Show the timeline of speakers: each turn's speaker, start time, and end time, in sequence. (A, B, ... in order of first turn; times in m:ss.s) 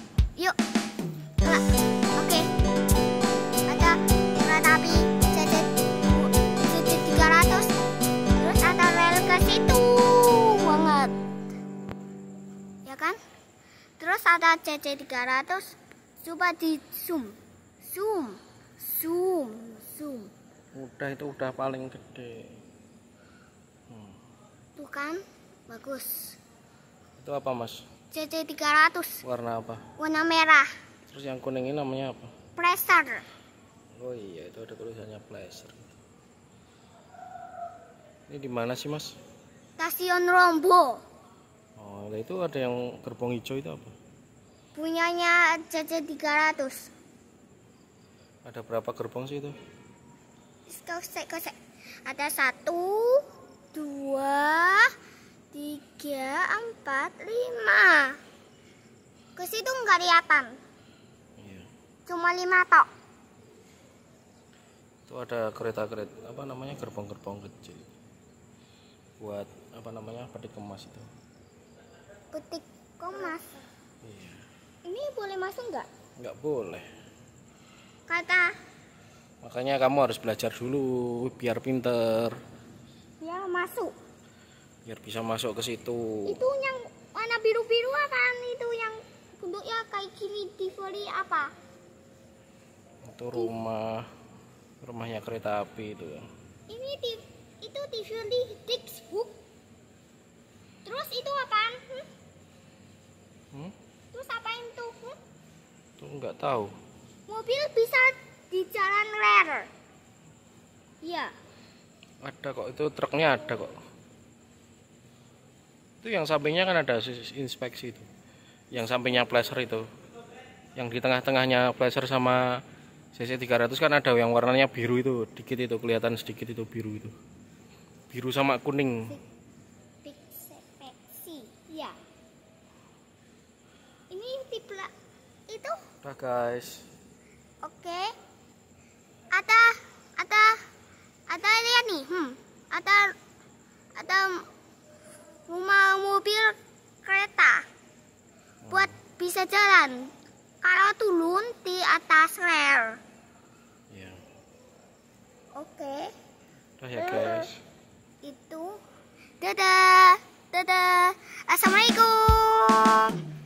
0:01.4-0:02.5 A
0:03.7-0:07.7 A
0:08.4-0:11.1 A
0:12.8-0:13.2 A
0:14.0-0:20.3 A
0:20.7-0:22.6 B
0:23.9-0:24.2 B
0:24.8-0:26.4 A
0:27.2-0:27.9 B
0:28.1-0:29.2 A
0:29.2-0:29.9 B
0:30.0-0:30.7 A
0:31.1-0:32.3 B
0:32.6-0:33.2 A
0:34.0-0:35.9 B
0:38.3-0:39.2 B
0:39.8-0:41.0 A
0:41.8-0:43.9 B
0:44.7-0:46.9 A
0:48.4-0:49.6 B
0:50.7-0:54.9 A
0:55.5-0:58.2 A
0:59.4-1:00.6 A
1:01.4-1:01.7 B
1:02.0-1:02.9 A
1:05.1-1:07.9 B
1:09.2-1:11.1 B
1:12.3-1:13.6 A
1:14.0-1:14.4 B
1:14.8-1:15.9 A
1:16.2-1:16.9 B
1:18.1-1:18.5 A
1:19.4-1:22.4 B
1:23.2-1:23.9 A
1:24.8-1:26.4 B
1:26.2-1:31.5 A
1:33.0-1:34.1 B
1:34.8-1:36.3 B
1:36.7-1:39.4 A
1:40.8-1:42.1 A
1:44.1-1:45.2 A
1:46.0-1:46.7 B
1:47.3-1:49.7 A
1:51.0-1:51.3 A
1:52.2-1:53.8 B
1:56.0-1:58.1 B
1:58.7-1:59.9 B
2:00.8-2:07.1 B
2:08.1-2:09.2 B
2:10.0-2:12.0 A
2:14.1-2:14.9 A
2:15.5-2:15.8 A
2:16.0-2:16.9 B
2:17.6-2:18.1 A
2:19.3-2:20.6 A
2:21.3-2:23.1 A
2:24.0-2:24.4 A
2:25.5-2:27.6 A
2:28.6-2:28.9 B
2:28.7-2:30.1 A
2:30.6-2:33.0 A
2:33.9-2:34.2 B
2:35.5-2:36.1 A
2:36.8-2:37.6 B
2:37.0-2:37.5 A
2:38.2-2:38.7 A
2:39.4-2:43.2 A